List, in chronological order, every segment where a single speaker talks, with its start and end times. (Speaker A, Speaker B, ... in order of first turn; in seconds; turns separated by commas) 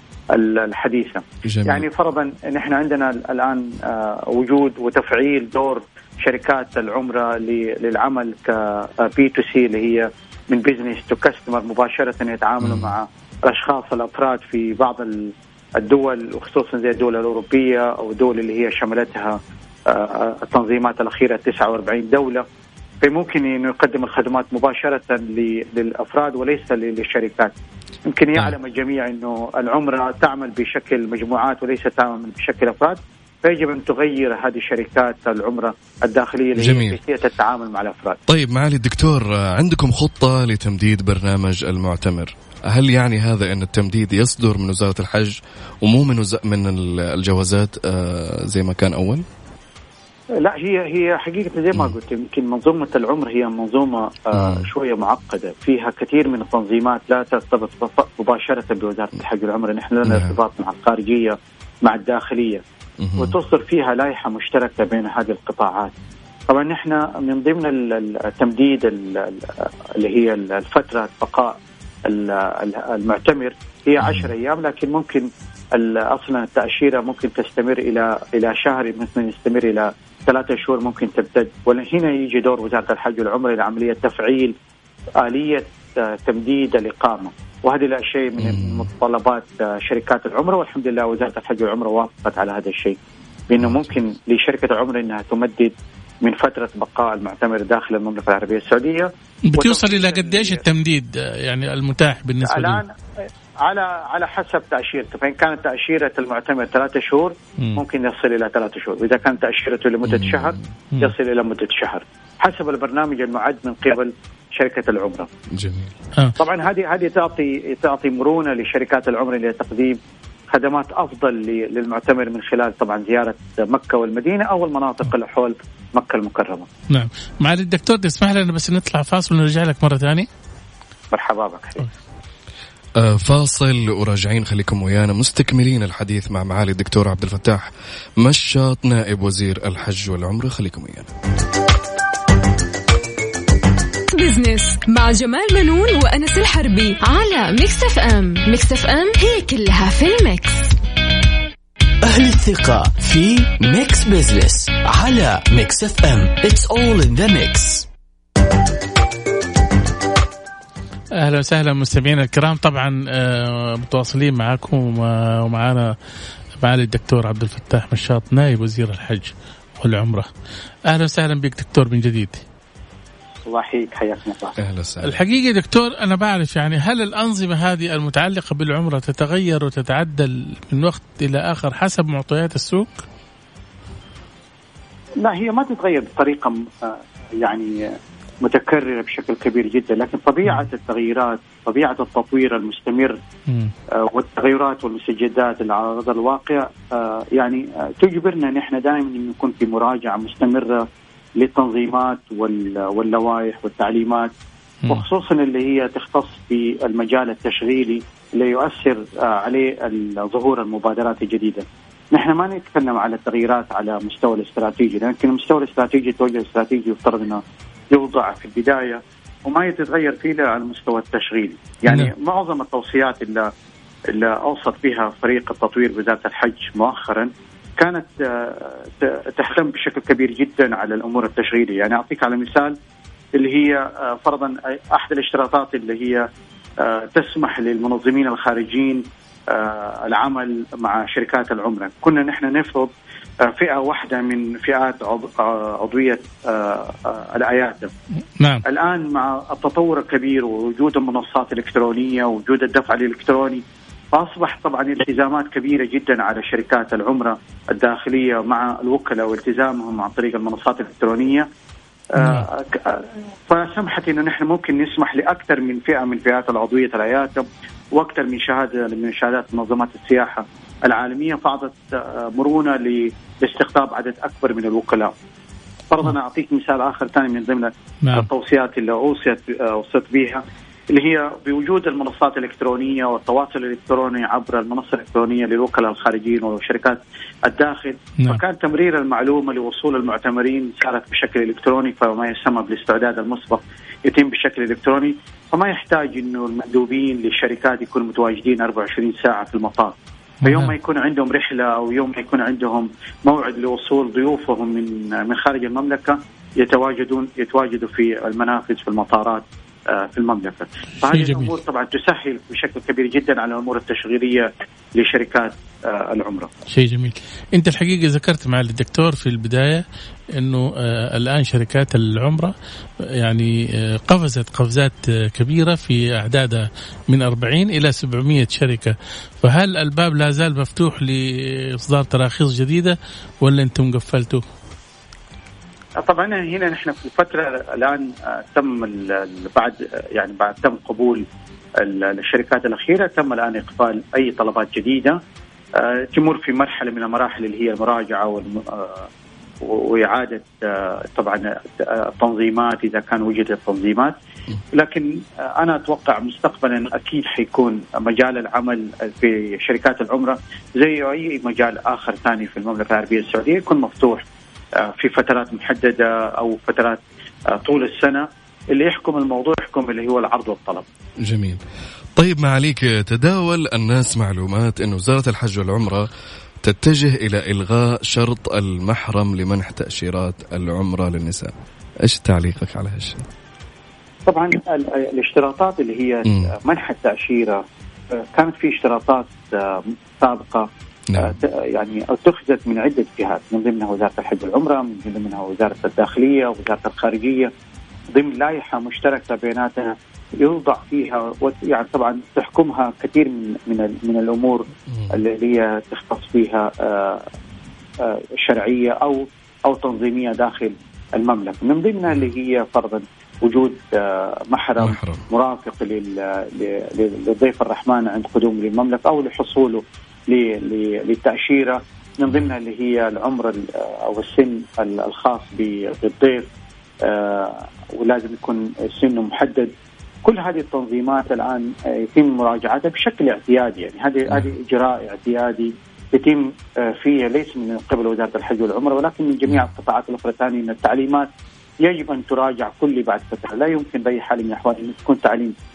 Speaker A: 0.3-22.5, Speaker B: 1.4-1.9, Speaker B: 12.6-12.9, Speaker A: 23.0-27.5, Speaker A: 28.1-38.2, Speaker B: 36.5-37.0, Speaker B: 38.3-49.2, Speaker A: 50.4-62.6, Speaker B: 54.3-54.7, Speaker B: 60.0-60.4, Speaker B: 63.0-63.4, Speaker A: 63.2-65.9, Speaker A: 66.5-84.5, Speaker B: 74.0-74.3, Speaker A: 85.2-93.0, Speaker B: 88.4-88.9, Speaker A: 93.5-100.6, Speaker B: 93.6-93.9, Speaker C: 99.5-102.8, Speaker A: 102.5-102.9, Speaker A: 103.6-115.3, Speaker B: 110.0-110.6, Speaker B: 115.5-115.9, Speaker A: 116.4-120.0, Speaker A: 120.5-126.7, Speaker C: 126.9-130.3, Speaker A: 131.1-131.8, Speaker B: 133.0-141.1, Speaker D: 144.1-150.8, Speaker E: 152.0-157.9, Speaker C: 161.2-165.9, Speaker C: 166.6-170.3, Speaker C: 170.9-172.4, Speaker A: 173.5-174.6, Speaker B: 174.6-175.2, Speaker C: 175.0-183.0, Speaker A: 185.2-193.2, Speaker C: 193.5-193.7, Speaker A: 194.0-204.3, Speaker A: 204.9-223.5, Speaker A: 224.1-232.8, Speaker A: 233.4-236.3, Speaker A: 236.8-242.9, Speaker A: 243.4-247.9, Speaker A: 248.7-261.5, Speaker A: 262.2-275.1, Speaker C: 262.2-262.5, Speaker A: 275.9-316.5, Speaker C: 278.0-278.3, Speaker C: 300.4-300.7, Speaker C: 311.0-311.6, Speaker C: 316.7-319.8, Speaker C: 320.4-322.5, Speaker C: 323.2-334.4, Speaker A: 336.0-341.2, Speaker A: 341.8-345.2, Speaker A: 345.8-349.1, Speaker A: 349.6-354.2, Speaker A: 354.7-364.2, Speaker A: 364.8-370.9, Speaker B: 371.2-371.6, Speaker B: 372.2-376.1, Speaker B: 376.6-383.3, Speaker A: 384.3-387.6, Speaker B: 386.3-386.5, Speaker A: 388.1-397.5, Speaker B: 391.1-391.4, Speaker A: 398.1-407.2, Speaker A: 408.0-426.5, Speaker B: 414.8-415.3, Speaker A: 427.0-429.7, Speaker A: 430.2-441.3, Speaker A: 441.8-445.5